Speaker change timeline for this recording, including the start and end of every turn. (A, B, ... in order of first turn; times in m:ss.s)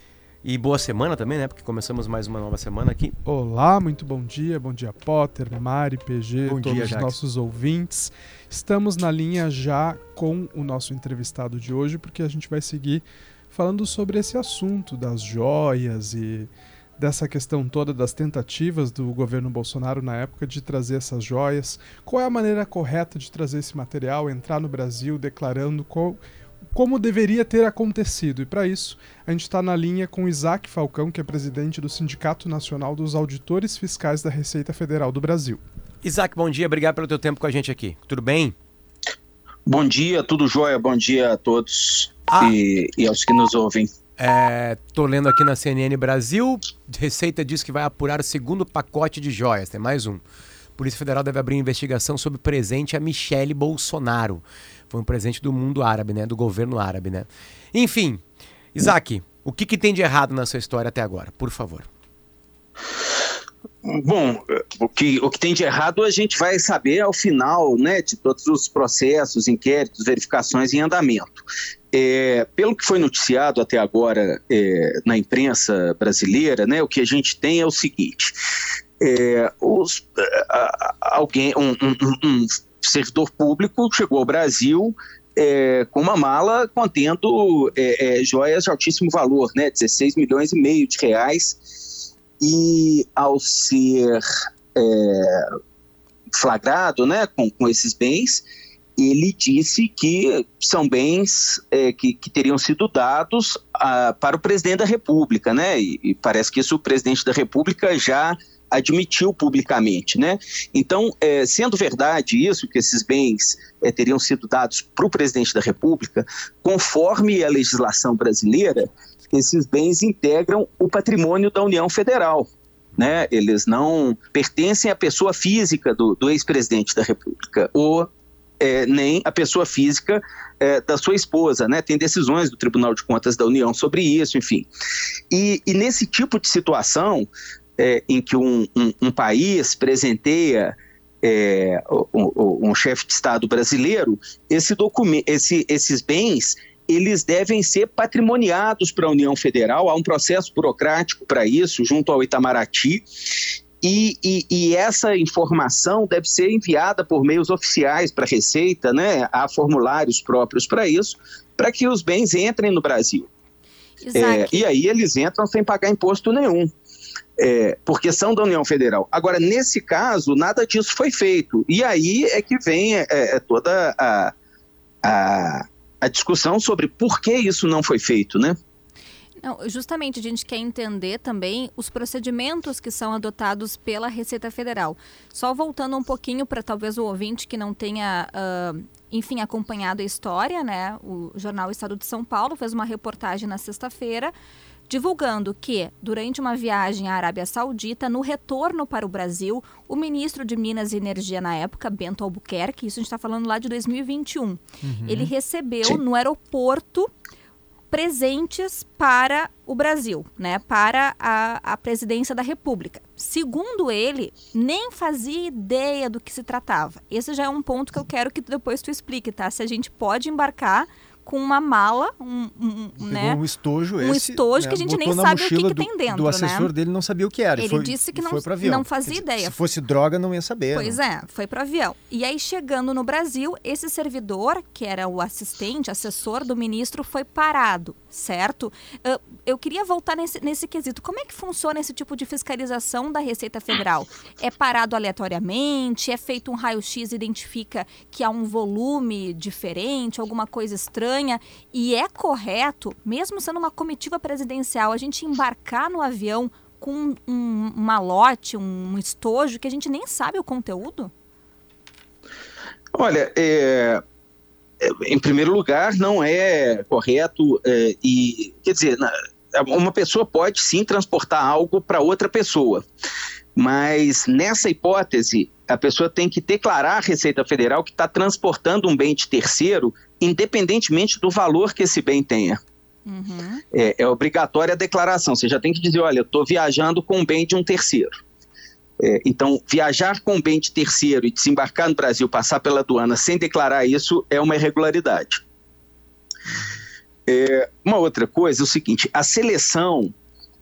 0:00.4-0:03.2 A
0:03.3-0:26.2 B
0:06.5-0:07.2 C
0:26.7-0:35.6 B
0:36.0-0:38.6 A
0:39.7-0:43.9 D
0:42.3-0:42.6 A
0:44.2-0:50.2 A
0:50.8-0:58.2 A
0:58.7-1:01.9 A
1:03.8-1:18.3 D
1:19.0-1:35.4 D
1:36.4-1:38.4 D
1:39.0-2:14.7 D
2:15.3-2:43.3 D
2:44.0-2:44.6 E
2:44.2-2:46.7 D
2:47.4-2:54.3 D
2:55.0-2:58.6 D
2:59.4-3:14.3 E
3:14.9-3:27.1 E
3:24.8-3:25.3 C
3:27.9-3:43.4 E
3:43.0-3:51.0 C
3:44.0-3:46.7 E
3:47.6-3:49.6 E
3:50.7-4:21.1 E
4:23.0-4:24.0 D
4:24.8-4:32.8 D
4:33.6-4:42.6 D
4:43.1-4:43.6 E
4:43.7-4:48.1 D
4:49.0-4:55.4 D
4:57.3-5:00.1 D